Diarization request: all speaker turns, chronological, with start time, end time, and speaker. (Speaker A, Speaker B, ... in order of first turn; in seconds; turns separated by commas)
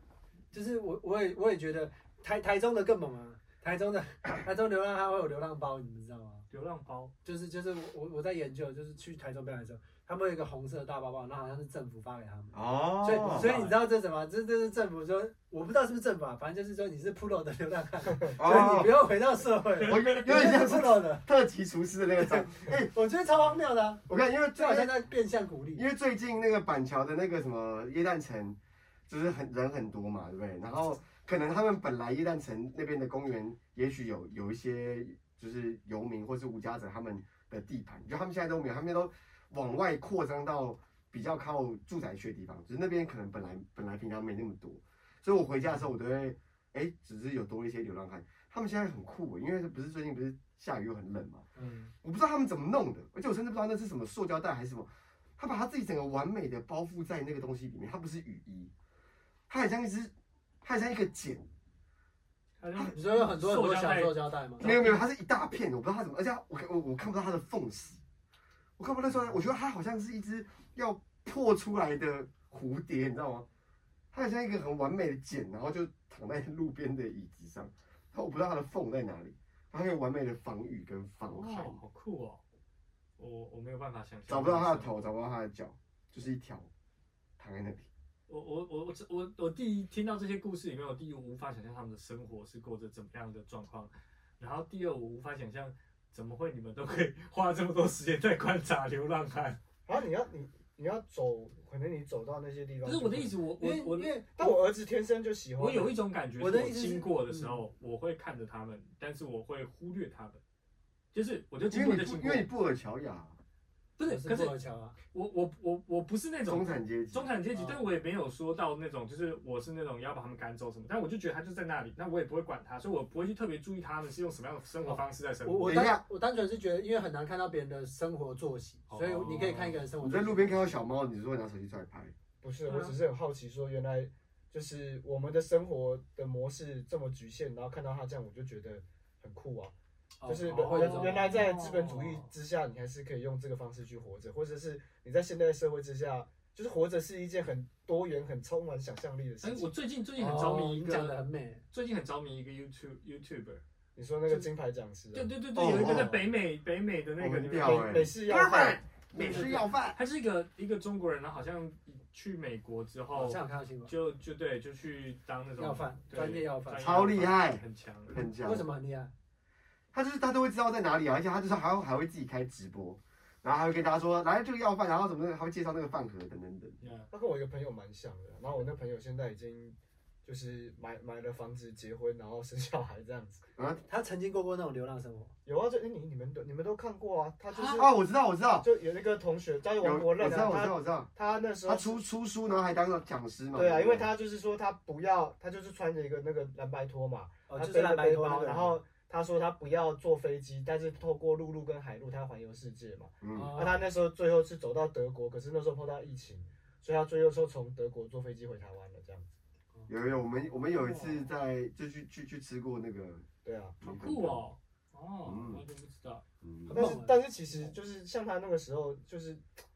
Speaker A: 0.5-6.5, Speaker B: 6.5-7.1, Speaker A: 7.2-21.2, Speaker C: 12.5-13.6, Speaker B: 13.3-13.7, Speaker C: 18.4-18.9, Speaker C: 19.9-22.9, Speaker A: 22.2-25.9, Speaker C: 24.1-24.9, Speaker C: 25.8-51.5, Speaker A: 51.6-51.9, Speaker C: 52.0-58.7, Speaker C: 59.5-61.5, Speaker B: 62.6-65.0, Speaker A: 62.9-64.7, Speaker C: 64.6-68.0, Speaker C: 68.8-73.5, Speaker C: 74.1-81.8, Speaker B: 81.2-82.4, Speaker B: 83.2-84.9, Speaker C: 84.3-86.7, Speaker C: 87.4-87.9, Speaker B: 88.3-99.6, Speaker D: 99.9-103.3, Speaker B: 102.8-104.2, Speaker A: 103.6-104.6, Speaker D: 104.4-106.0, Speaker B: 105.6-110.4, Speaker A: 106.4-107.6, Speaker B: 111.1-112.5, Speaker C: 111.7-113.4, Speaker B: 114.0-114.5, Speaker A: 114.0-115.0, Speaker B: 115.1-125.8, Speaker C: 116.5-117.3, Speaker A: 117.5-117.9, Speaker A: 124.9-130.8, Speaker C: 125.7-126.0, Speaker B: 128.9-129.8, Speaker C: 130.0-132.1, Speaker D: 132.4-139.7, Speaker B: 132.7-133.0, Speaker A: 140.2-141.4, Speaker D: 140.3-149.7, Speaker B: 140.5-142.3, Speaker B: 149.4-151.2, Speaker A: 150.2-151.6, Speaker B: 151.7-153.6, Speaker D: 154.0-155.3, Speaker B: 155.1-158.1, Speaker C: 155.5-156.3, Speaker C: 157.2-160.0, Speaker D: 157.6-158.8, Speaker A: 159.2-159.6, Speaker B: 159.2-168.3, Speaker A: 163.1-163.9, Speaker A: 165.6-167.0, Speaker C: 166.8-168.7, Speaker A: 168.4-169.1, Speaker C: 169.9-176.8, Speaker B: 176.8-177.1, Speaker D: 177.1-183.4, Speaker C: 183.6-183.8, Speaker A: 183.9-185.3, Speaker D: 185.5-187.9, Speaker A: 187.5-187.8, Speaker C: 187.7-188.7, Speaker D: 188.6-192.0, Speaker C: 189.8-191.1, Speaker C: 191.7-194.1, Speaker D: 193.5-209.3, Speaker A: 197.5-198.8, Speaker C: 203.2-203.5, Speaker A: 203.3-203.9, Speaker C: 209.9-213.3, Speaker B: 210.7-211.3, Speaker D: 213.4-213.8, Speaker C: 213.8-214.4, Speaker B: 213.8-216.2, Speaker C: 215.2-215.6, Speaker C: 216.4-216.9, Speaker A: 216.7-217.7, Speaker D: 216.7-219.5